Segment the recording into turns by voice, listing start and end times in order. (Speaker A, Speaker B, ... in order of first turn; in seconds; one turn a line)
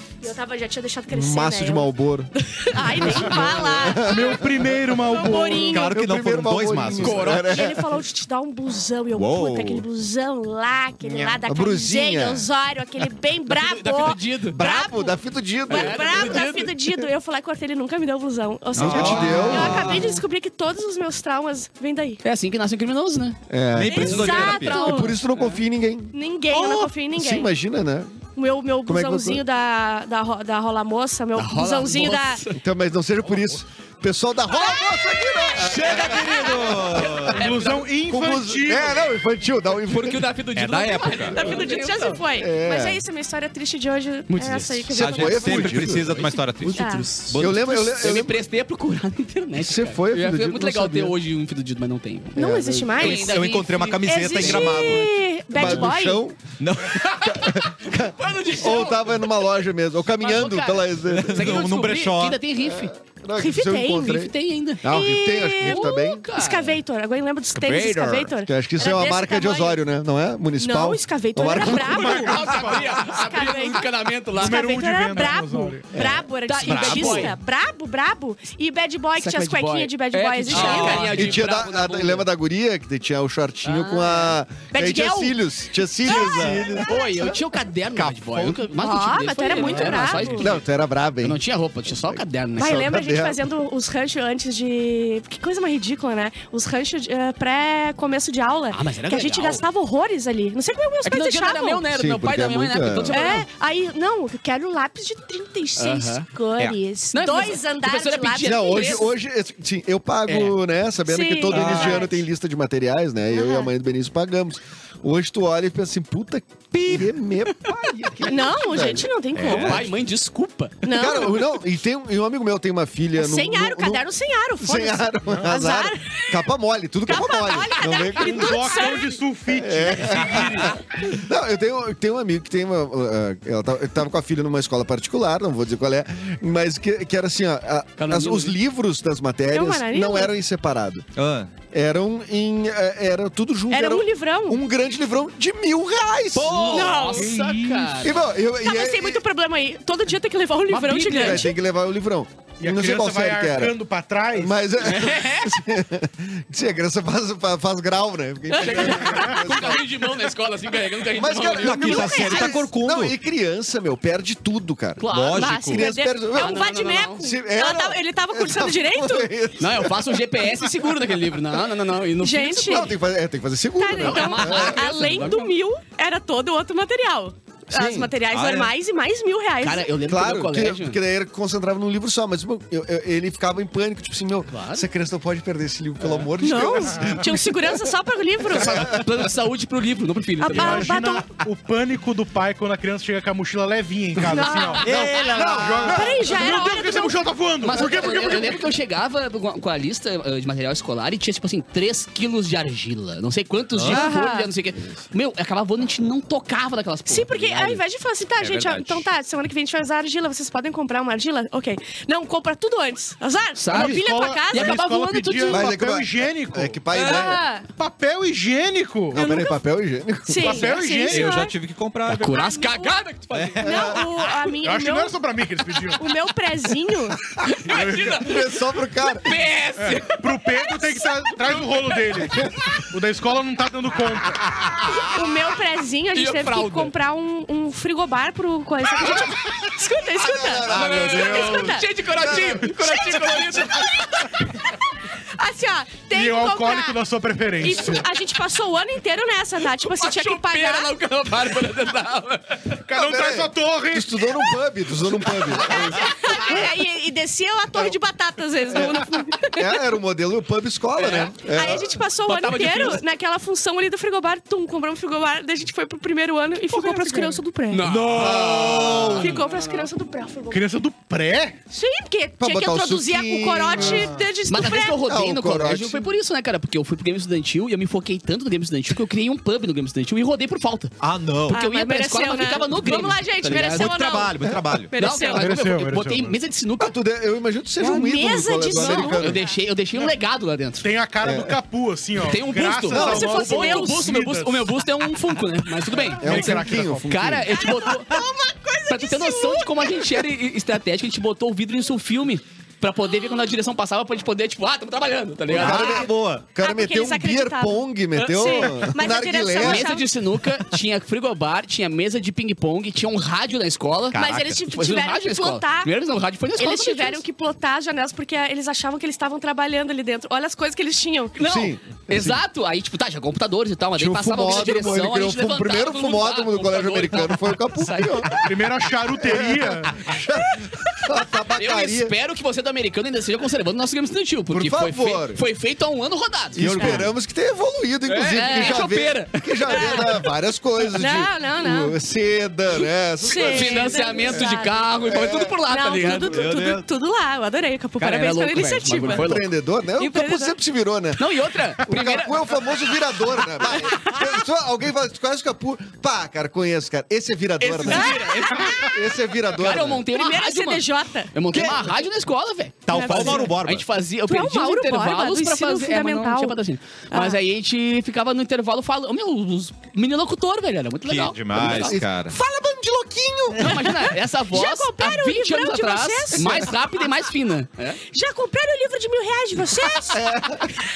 Speaker A: 0.2-4.5
Speaker B: 1.1-4.7
Speaker C: 4.0-5.9
Speaker A: 5.0-6.0
Speaker D: 5.6-7.4
Speaker B: 5.9-7.8
Speaker E: 6.9-7.7
Speaker A: 7.3-22.2
Speaker D: 9.1-9.8
Speaker E: 11.1-11.4
Speaker B: 11.4-12.5
Speaker E: 13.4-14.6
Speaker B: 14.5-16.4
Speaker E: 15.7-16.7
Speaker B: 18.8-20.1
Speaker D: 18.8-20.1
Speaker E: 19.0-20.2
Speaker E: 22.2-23.4
Speaker B: 23.5-28.1
Speaker D: 23.7-24.8
Speaker A: 23.8-25.2
Speaker E: 23.9-25.6
Speaker A: 26.1-27.5
Speaker A: 28.4-32.4
Speaker B: 28.9-29.4
Speaker E: 31.4-32.6
Speaker B: 32.5-37.4
Speaker A: 34.5-37.0
Speaker D: 35.6-37.4
Speaker E: 37.1-37.9
Speaker C: 37.3-39.1
Speaker B: 38.0-40.2
Speaker E: 39.9-42.2
Speaker D: 40.5-41.5
Speaker A: 41.3-45.7
Speaker B: 42.4-43.0
Speaker E: 44.3-52.4
Speaker D: 44.9-47.8
Speaker B: 45.0-46.1
Speaker A: 46.7-47.1
Speaker B: 47.4-48.4
Speaker B: 49.6-51.1
Speaker B: 52.3-53.0
Speaker A: 52.4-56.2
Speaker E: 53.0-55.0
Speaker D: 53.0-55.1
Speaker B: 55.5-56.4
Speaker D: 56.6-57.0
Speaker E: 56.8-59.4
Speaker B: 57.2-61.6
Speaker E: 60.2-62.9
Speaker D: 61.1-62.4
Speaker B: 62.6-66.2
Speaker A: 63.4-64.3
Speaker E: 64.1-64.9
Speaker A: 64.8-69.8
Speaker E: 65.6-66.8
Speaker D: 67.5-68.3
Speaker B: 68.5-72.3
Speaker A: 70.6-73.9
Speaker C: 71.7-73.0
Speaker E: 71.8-74.8
Speaker C: 74.3-75.8
Speaker A: 74.4-81.3
Speaker B: 75.9-76.2
Speaker E: 76.4-77.3
Speaker D: 76.6-77.3
Speaker E: 79.2-82.3
Speaker B: 80.5-87.0
Speaker E: 83.6-84.4
Speaker A: 84.7-85.4
Speaker A: 86.0-87.3
Speaker E: 86.1-90.6
Speaker B: 88.0-88.6
Speaker A: 88.8-90.5
Speaker C: 89.6-90.2
Speaker B: 90.3-91.4
Speaker E: 91.2-92.9
Speaker B: 92.0-93.4
Speaker A: 92.5-101.8
Speaker E: 98.7-99.6
Speaker E: 101.0-103.5
Speaker B: 101.9-103.2
Speaker A: 103.1-109.1
Speaker E: 105.8-106.3
Speaker E: 107.1-109.1
Speaker B: 108.4-119.1
Speaker E: 110.3-110.5
Speaker A: 111.0-112.1
Speaker D: 111.5-112.1
Speaker A: 113.3-113.7
Speaker A: 118.2-119.8
Speaker D: 119.3-119.9
Speaker E: 119.4-120.8
Speaker A: 120.8-121.5
Speaker B: 120.8-124.0
Speaker A: 123.2-126.4
Speaker B: 124.6-128.8
Speaker A: 127.0-129.2
Speaker C: 128.1-130.8
Speaker B: 129.5-141.0
Speaker E: 130.2-130.7
Speaker E: 138.0-138.6
Speaker A: 139.5-140.3
Speaker D: 141.2-141.5
Speaker B: 141.7-146.9
Speaker A: 143.7-144.6
Speaker D: 146.3-147.0
Speaker E: 146.7-148.2
Speaker A: 146.7-147.3
Speaker C: 147.1-148.1
Speaker B: 148.0-149.2
Speaker A: 148.6-151.6
Speaker E: 150.7-151.5
Speaker B: 151.1-153.7
Speaker C: 152.6-154.6
Speaker B: 154.3-159.9
Speaker E: 154.8-155.7
Speaker A: 158.5-159.6
Speaker E: 158.5-162.3
Speaker B: 161.1-165.0
Speaker D: 161.6-163.1
Speaker A: 161.7-162.6
Speaker E: 165.0-165.8
Speaker D: 165.0-165.8
Speaker A: 165.3-169.3
Speaker B: 165.7-166.6
Speaker E: 166.3-167.2
Speaker B: 167.2-170.5
Speaker E: 169.6-172.9
Speaker A: 172.2-172.9
Speaker B: 172.6-174.8
Speaker A: 173.8-179.9
Speaker E: 174.0-175.5
Speaker B: 177.7-178.1
Speaker D: 178.3-178.7
Speaker E: 179.6-181.0
Speaker B: 180.0-187.9
Speaker E: 184.5-184.8
Speaker A: 186.4-189.0
Speaker E: 188.5-190.9
Speaker B: 188.6-189.1
Speaker A: 190.4-191.3
Speaker C: 190.5-198.7
Speaker A: 194.2-194.9
Speaker E: 194.4-195.2
Speaker D: 194.8-196.2
Speaker A: 195.8-197.2
Speaker E: 197.6-207.8
Speaker D: 203.7-204.1
Speaker A: 203.9-204.5
Speaker A: 207.1-215.7
Speaker D: 208.4-209.1
Speaker E: 213.6-215.5
Speaker C: 213.7-219.2
Speaker B: 215.5-217.4
Speaker A: 216.9-217.7
Speaker B: 219.1-220.7
Speaker A: 219.1-219.6
Speaker A: 220.3-221.5
Speaker C: 220.4-221.4
Speaker D: 221.1-222.4
Speaker E: 222.1-223.7
Speaker A: 222.3-223.0
Speaker D: 223.3-224.4
Speaker B: 223.6-224.0
Speaker A: 223.6-225.2
Speaker C: 224.6-226.0
Speaker A: 225.9-227.2
Speaker E: 227.4-230.6
Speaker C: 227.6-228.2
Speaker B: 228.1-229.3
Speaker C: 229.8-234.5
Speaker A: 230.6-231.8
Speaker D: 234.5-234.9
Speaker A: 234.9-241.9
Speaker E: 236.1-236.9
Speaker B: 240.2-242.7
Speaker E: 240.6-244.2
Speaker A: 242.8-244.8
Speaker A: 245.3-247.0
Speaker C: 246.1-248.0
Speaker A: 247.6-250.9
Speaker E: 249.8-252.8
Speaker C: 252.8-254.4
Speaker B: 252.9-256.5
Speaker E: 255.5-256.5
Speaker A: 255.6-259.8
Speaker B: 258.7-262.0
Speaker E: 260.9-261.5
Speaker A: 261.4-267.8
Speaker E: 262.2-263.0
Speaker E: 266.7-269.9
Speaker C: 267.8-269.1
Speaker B: 268.1-269.4
Speaker A: 269.2-270.6
Speaker C: 270.5-271.6
Speaker A: 271.7-275.0
Speaker B: 272.4-274.1
Speaker C: 273.8-274.2
Speaker E: 274.5-280.9
Speaker B: 274.8-276.1
Speaker D: 281.0-281.6
Speaker E: 281.5-283.9
Speaker A: 281.5-285.6
Speaker D: 283.5-284.9
Speaker E: 284.9-286.9
Speaker C: 285.4-286.4
Speaker B: 286.8-289.4
Speaker A: 287.8-289.5
Speaker E: 288.8-290.9
Speaker C: 290.8-294.7
Speaker B: 291.2-291.6
Speaker E: 292.2-298.1
Speaker A: 292.9-294.0
Speaker C: 296.0-297.4
Speaker B: 296.2-297.5
Speaker A: 297.5-300.2
Speaker E: 298.9-306.0
Speaker D: 305.5-306.4
Speaker B: 305.5-309.9
Speaker A: 305.6-310.1
Speaker E: 308.2-308.6
Speaker E: 309.6-317.2
Speaker D: 314.1-314.6
Speaker A: 314.1-315.9
Speaker A: 316.6-321.4
Speaker E: 321.4-328.5
Speaker B: 321.4-322.4
Speaker B: 323.9-328.5
Speaker C: 328.4-330.1
Speaker B: 329.1-332.1
Speaker E: 331.5-337.1
Speaker B: 334.5-335.4
Speaker B: 336.6-344.5
Speaker A: 336.7-337.1
Speaker E: 338.1-340.1
Speaker A: 338.4-338.8
Speaker A: 339.7-340.2
Speaker A: 340.9-341.9
Speaker A: 343.2-344.8
Speaker E: 343.2-346.4
Speaker B: 345.0-345.6
Speaker A: 345.7-349.4
Speaker D: 346.3-346.8
Speaker E: 348.0-349.5
Speaker B: 349.0-351.2
Speaker A: 349.9-350.5
Speaker E: 351.2-352.7
Speaker B: 351.8-358.2
Speaker A: 353.7-354.2
Speaker E: 357.6-358.9
Speaker A: 357.8-358.9
Speaker B: 358.8-360.1
Speaker E: 359.5-372.0
Speaker A: 360.1-361.3
Speaker D: 361.5-361.9
Speaker D: 362.9-363.9
Speaker A: 362.9-363.5
Speaker A: 364.2-366.6
Speaker A: 367.1-367.4
Speaker D: 371.0-372.4
Speaker B: 371.5-373.9
Speaker E: 373.6-378.0
Speaker A: 374.5-376.7
Speaker A: 378.1-380.2
Speaker B: 380.1-380.7